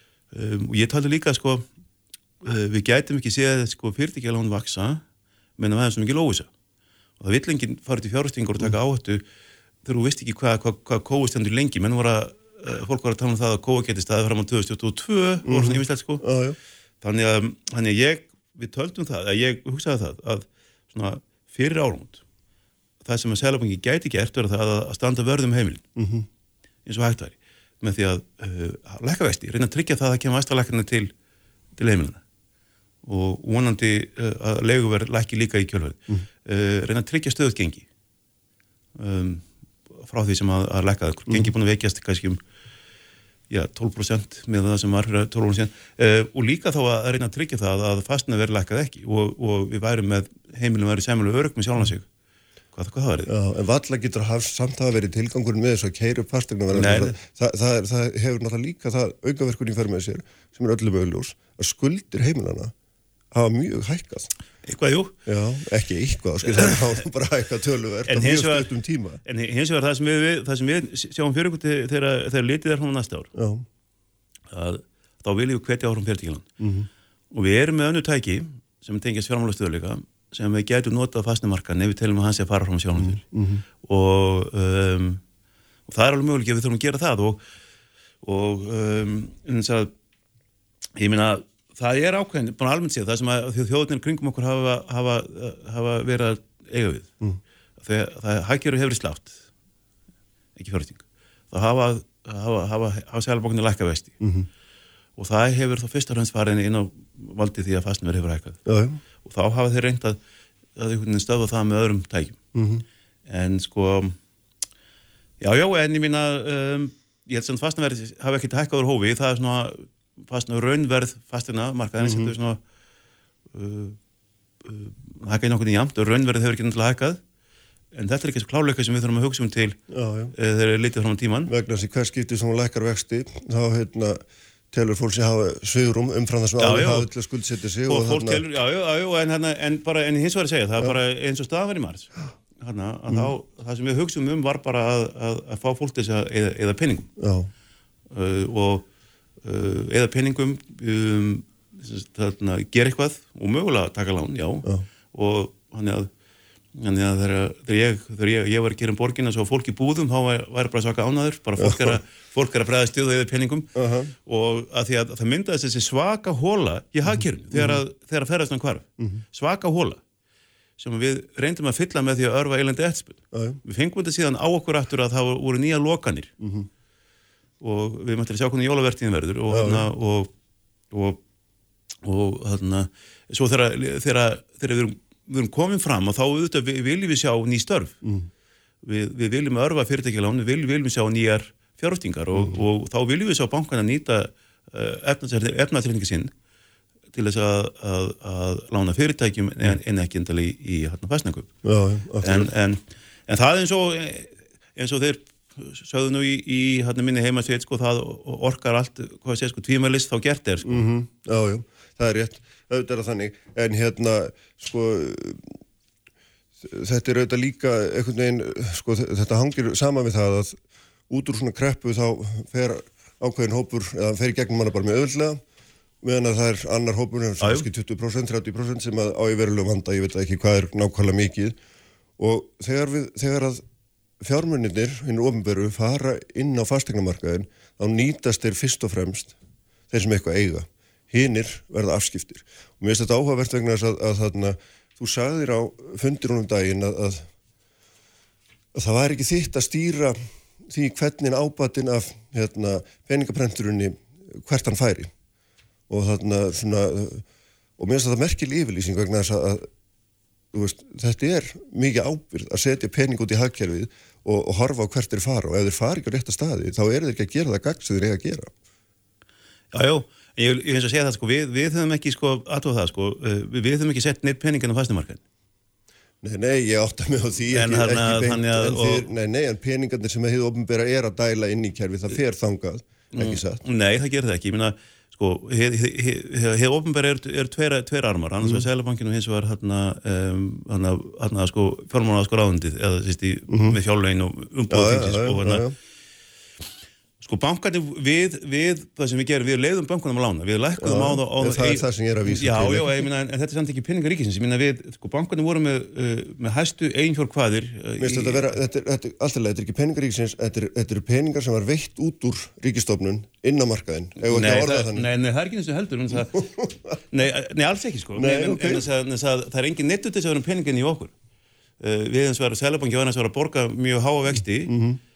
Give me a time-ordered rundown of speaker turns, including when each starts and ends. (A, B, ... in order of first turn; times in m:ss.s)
0:00.3-0:01.7 A
0:02.4-0:05.0 A
0:05.6-0:06.5 A
0:07.2-0:09.2 A
0:09.8-0:16.2 A
0:15.4-0:16.6 B
0:17.0-0:22.2 A
0:23.0-0:25.8 A
0:26.0-0:26.3 B
0:26.9-0:31.1 A
0:31.8-0:32.2 A
0:33.0-0:37.8 A
0:39.0-0:39.5 A
0:40.0-0:42.4 A
0:43.5-0:52.1 A
0:52.7-0:53.3 A
0:53.3-1:02.7 B
0:56.7-0:57.2 A
1:03.3-1:04.3 B
1:04.6-1:05.1 A
1:05.3-1:09.2 B
1:08.1-1:08.7 A
1:09.2-1:13.3 A
1:13.4-1:13.6 B
1:14.5-1:16.5 A
1:16.6-1:16.9 B
1:17.3-1:23.2 A
1:23.0-1:23.6 B
1:23.8-1:25.2 A
1:25.9-1:27.4 A
1:28.2-1:29.9 A
1:31.0-1:37.1 A
1:37.8-1:39.4 A
1:40.6-1:44.1 A
1:44.2-1:44.5 B
1:45.2-1:48.6 A
1:48.7-1:49.0 B
1:49.2-1:50.2 A
1:50.8-1:52.4 A
1:52.5-1:52.8 B
1:53.3-1:54.2 A
1:55.4-2:02.6 A
2:02.0-2:02.3 B
2:03.5-2:04.0 A
2:04.6-2:07.2 A
2:07.9-2:09.8 A
2:09.9-2:10.3 B
2:10.3-2:11.5 A
2:11.5-2:18.4 B
2:16.6-2:17.1 A
2:17.9-2:27.1 A
2:27.2-2:27.5 B
2:28.1-2:28.8 A
2:29.4-2:36.1 A
2:36.8-2:43.7 A
2:41.6-2:42.0 B
2:43.8-2:44.1 B
2:44.2-2:50.0 A
2:47.1-2:47.8 B
2:50.8-2:56.3 A
2:53.3-2:53.6 B
2:56.4-2:56.7 B
2:57.6-3:00.3 A
2:59.5-2:59.9 B
3:00.9-3:01.2 A
3:02.0-3:08.0 A
3:08.0-3:08.3 B
3:08.8-3:16.3 A
3:17.1-3:21.5 A
3:21.6-3:22.5 B
3:22.2-3:30.9 A
3:30.6-3:35.6 B
3:36.6-3:40.6 B
3:41.1-3:45.4 B
3:46.0-3:51.6 B
3:47.4-3:47.7 A
3:52.2-3:53.6 B
3:54.2-3:59.3 B
3:59.9-4:07.3 B
4:08.7-4:15.1 B
4:15.9-4:17.2 B
4:17.8-4:19.7 B
4:20.5-4:28.5 B
4:29.7-4:35.2 A
4:36.2-4:43.6 B
4:37.5-4:39.1 A
4:43.1-4:55.6 A
4:53.5-4:53.8 B
4:54.7-4:55.8 B
4:57.2-5:08.6 A
5:00.8-5:03.0 B
5:08.0-5:15.1 B
5:14.2-5:16.4 A
5:16.1-5:17.0 B
5:17.1-5:21.1 A
5:18.2-5:18.8 B
5:21.8-5:24.8 A
5:24.7-5:25.0 B